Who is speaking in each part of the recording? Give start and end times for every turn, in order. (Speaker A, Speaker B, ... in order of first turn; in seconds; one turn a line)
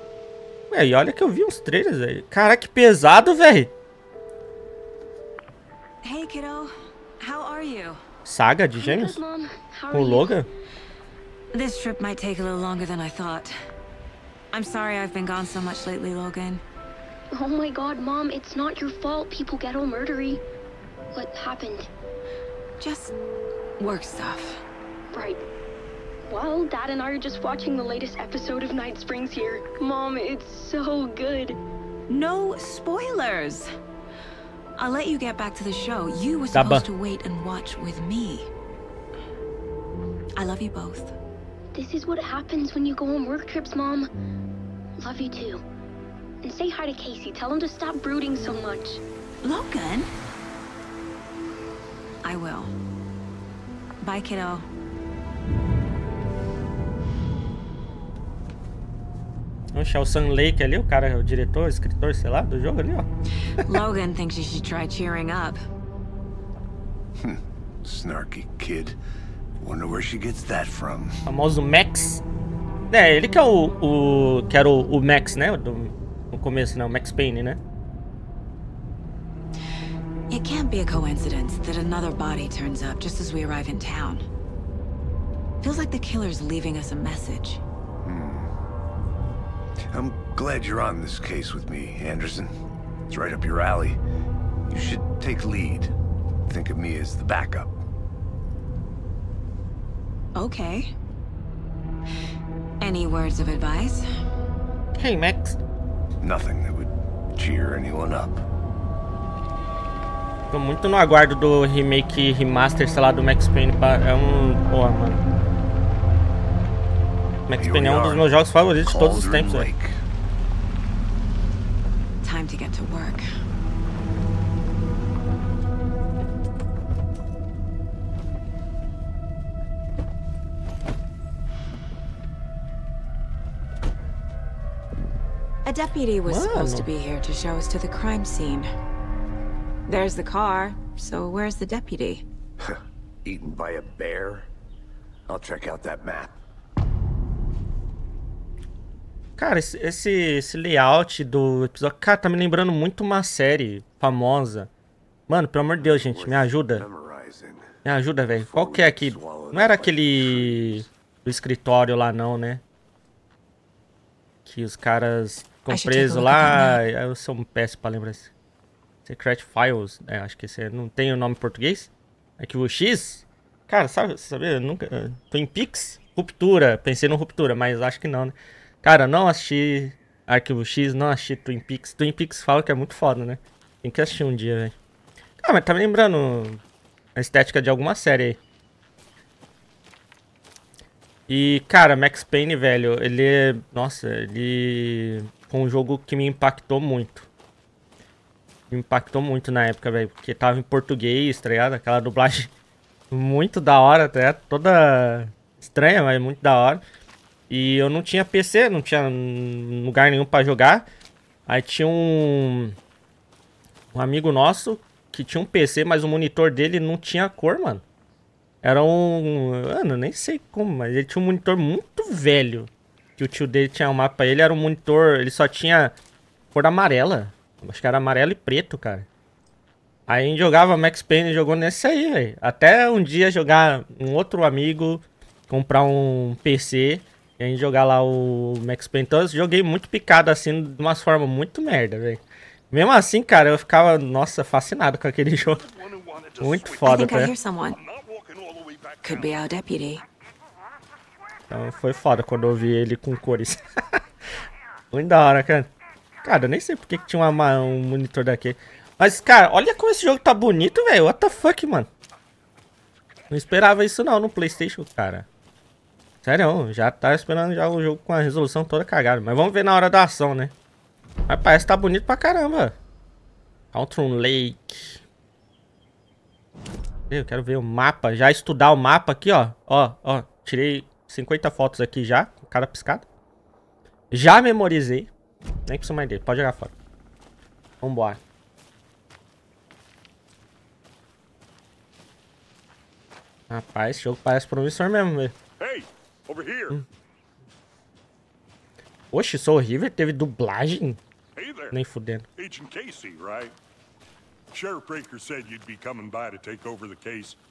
Speaker A: 0.7-3.7
Speaker B: 6.0-8.0
Speaker A: 8.3-9.2
Speaker C: 8.8-10.4
Speaker A: 9.9-10.5
Speaker B: 11.5-13.6
Speaker B: 14.5-16.6
Speaker C: 17.3-20.4
Speaker C: 21.1-21.9
Speaker B: 22.8-23.1
Speaker B: 23.8-24.6
Speaker C: 25.1-25.4
Speaker C: 26.3-31.6
Speaker B: 32.1-33.7
Speaker B: 34.8-38.5
Speaker A: 36.5-36.9
Speaker B: 40.4-41.1
Speaker C: 41.7-44.1
Speaker C: 45.0-45.6
Speaker C: 46.4-49.0
Speaker B: 49.4-50.1
Speaker B: 52.2-52.7
Speaker B: 54.0-54.7
Speaker A: 59.7-63.1
Speaker B: 63.5-65.6
Speaker D: 67.2-69.0
Speaker D: 69.6-71.2
Speaker A: 71.3-72.2
Speaker A: 72.9-77.6
Speaker B: 80.3-84.2
Speaker B: 85.6-87.6
Speaker D: 88.0-88.5
Speaker D: 89.9-92.6
Speaker D: 93.1-94.0
Speaker D: 94.7-95.9
Speaker D: 96.5-97.8
Speaker B: 100.3-100.9
Speaker B: 102.8-104.1
Speaker A: 105.0-105.6
Speaker D: 106.2-108.5
Speaker A: 110.5-115.2
Speaker A: 117.5-119.7
Speaker D: 117.6-120.0
Speaker B: 122.2-123.3
Speaker B: 135.7-138.7
Speaker A: 136.3-136.9
Speaker B: 139.9-142.2
Speaker D: 142.6-144.5
Speaker D: 145.3-146.4
Speaker A: 149.4-154.7
Speaker A: 155.3-156.8
Speaker D: 155.8-157.8
Speaker A: 157.8-162.6
Speaker D: 158.3-160.9
Speaker A: 164.4-168.3
Speaker B: 165.7-166.8
Speaker A: 169.1-184.8
Speaker A: 185.4-186.6
Speaker A: 187.2-188.4
Speaker A: 191.3-197.3
Speaker A: 198.7-202.5
Speaker A: 203.1-206.8
Speaker A: 207.5-210.9
Speaker A: 211.5-212.8
Speaker A: 213.9-217.8
Speaker A: 218.6-225.9
Speaker A: 226.5-229.1
Speaker A: 230.1-245.6
Speaker E: 245.6-247.1
Speaker A: 246.4-247.3
Speaker B: 246.8-247.8
Speaker E: 247.8-249.3
Speaker B: 249.0-250.0
Speaker A: 251.5-253.6
Speaker A: 254.9-255.7
Speaker A: 256.2-261.9
Speaker A: 263.3-265.3
Speaker A: 266.2-270.5
Speaker A: 271.3-272.8
Speaker A: 273.7-275.0
Speaker A: 277.1-283.1
Speaker A: 284.1-285.1
Speaker A: 285.7-286.7
Speaker A: 287.8-288.2
Speaker A: 293.5-295.4
Speaker E: 295.6-296.8
Speaker A: 299.1-301.0
Speaker E: 301.4-301.8
Speaker A: 301.7-302.3
Speaker E: 302.4-303.5
Speaker E: 304.5-307.4